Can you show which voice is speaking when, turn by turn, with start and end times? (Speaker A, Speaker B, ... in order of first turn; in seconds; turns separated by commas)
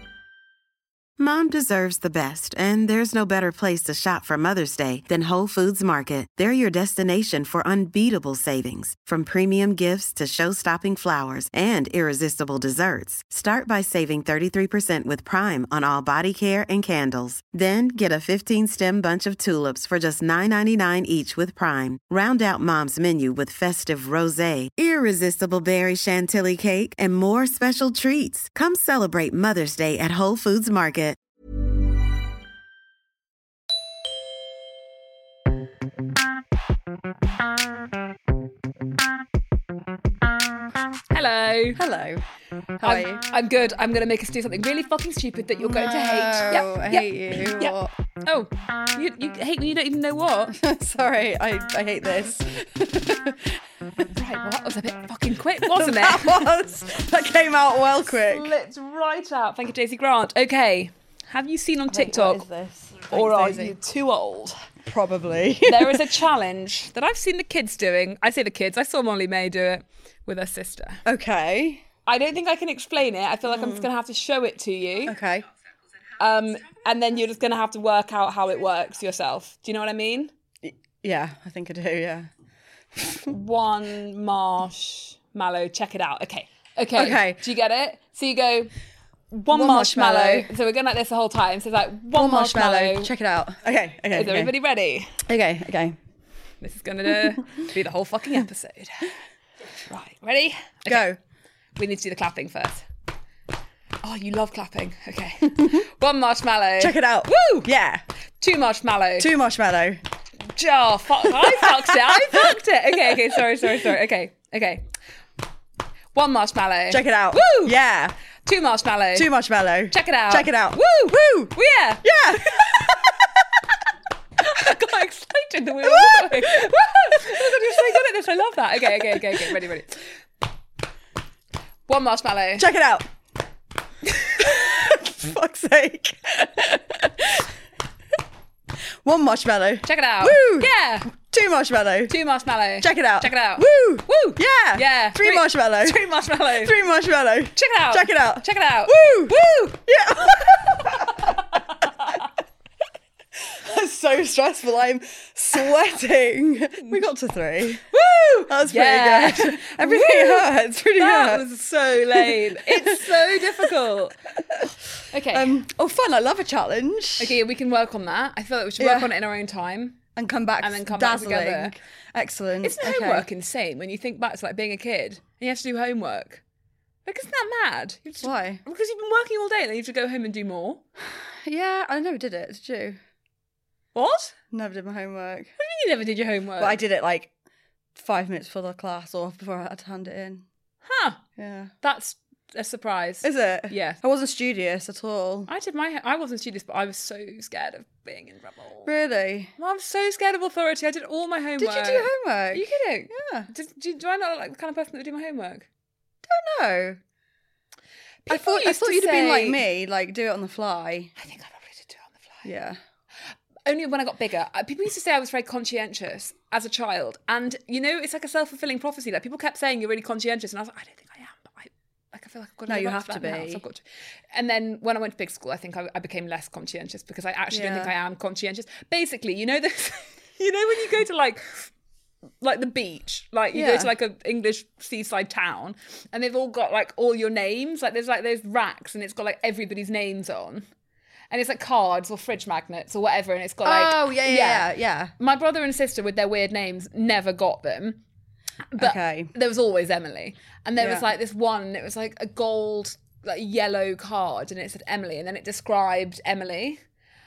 Speaker A: 1.2-31.2, Speaker B: 41.1-41.8, Speaker C: 41.8-42.2, Speaker C: 42.8-43.2, Speaker B: 42.8-50.5, Speaker C: 45.6-47.9, Speaker C: 50.5-53.6, Speaker B: 54.1-56.5, Speaker C: 55.6-58.5, Speaker B: 58.1-62.4, Speaker C: 61.9-63.8, Speaker B: 63.1-64.7, Speaker C: 64.8-66.1, Speaker B: 65.7-71.0, Speaker C: 71.0-71.8, Speaker B: 72.0-75.1, Speaker C: 73.5-73.9, Speaker C: 75.0-75.4, Speaker B: 76.2-80.3, Speaker C: 80.6-82.3, Speaker B: 83.2-88.7, Speaker C: 86.9-87.4, Speaker B: 89.3-93.1, Speaker C: 89.5-90.5, Speaker C: 92.1-94.5, Speaker B: 94.1-95.1, Speaker C: 95.2-96.0, Speaker B: 96.6-99.1, Speaker B: 99.9-101.0, Speaker C: 100.9-101.2, Speaker B: 101.8-102.9, Speaker B: 104.0-107.7, Speaker C: 106.8-108.0, Speaker B: 108.4-109.3, Speaker C: 109.2-110.0, Speaker B: 110.5-114.9, Speaker C: 111.6-112.0, Speaker B: 116.1-117.7, Speaker C: 116.9-118.1, Speaker B: 118.5-119.3, Speaker C: 119.1-123.3, Speaker B: 119.9-123.0, Speaker B: 124.4-130.1, Speaker C: 125.8-126.6, Speaker B: 131.9-132.7, Speaker C: 132.6-133.1, Speaker C: 134.3-137.5, Speaker C: 139.0-142.2, Speaker B: 139.8-141.1, Speaker B: 142.1-146.7, Speaker C: 142.8-151.5, Speaker B: 147.6-149.8, Speaker B: 151.2-152.1, Speaker C: 153.4-157.8, Speaker B: 156.8-157.1, Speaker B: 157.9-164.2, Speaker C: 158.5-163.7, Speaker B: 165.1-165.6, Speaker C: 165.3-167.4, Speaker B: 167.2-170.0, Speaker C: 168.8-169.1, Speaker C: 170.1-173.3, Speaker B: 170.6-171.7, Speaker B: 172.6-176.4, Speaker B: 177.1-180.8, Speaker C: 178.2-178.6, Speaker C: 181.4-183.0, Speaker B: 183.9-184.3, Speaker C: 184.5-185.5, Speaker B: 185.6-186.8, Speaker C: 186.6-187.3, Speaker C: 187.9-190.4, Speaker B: 190.8-191.2, Speaker C: 191.3-191.7, Speaker B: 191.8-194.0, Speaker C: 193.2-195.5, Speaker B: 195.5-198.9, Speaker C: 198.8-199.5, Speaker B: 199.6-205.7, Speaker C: 201.6-203.5, Speaker C: 206.2-207.0, Speaker B: 208.3-209.6, Speaker C: 208.3-211.1, Speaker B: 211.2-212.4, Speaker C: 212.4-212.8, Speaker B: 213.7-231.7, Speaker C: 222.7-223.6, Speaker C: 227.5-227.9, Speaker B: 232.4-240.6, Speaker C: 233.5-233.9, Speaker B: 241.3-248.0, Speaker C: 243.6-245.1, Speaker B: 248.7-256.8, Speaker C: 248.8-249.3, Speaker C: 250.8-251.1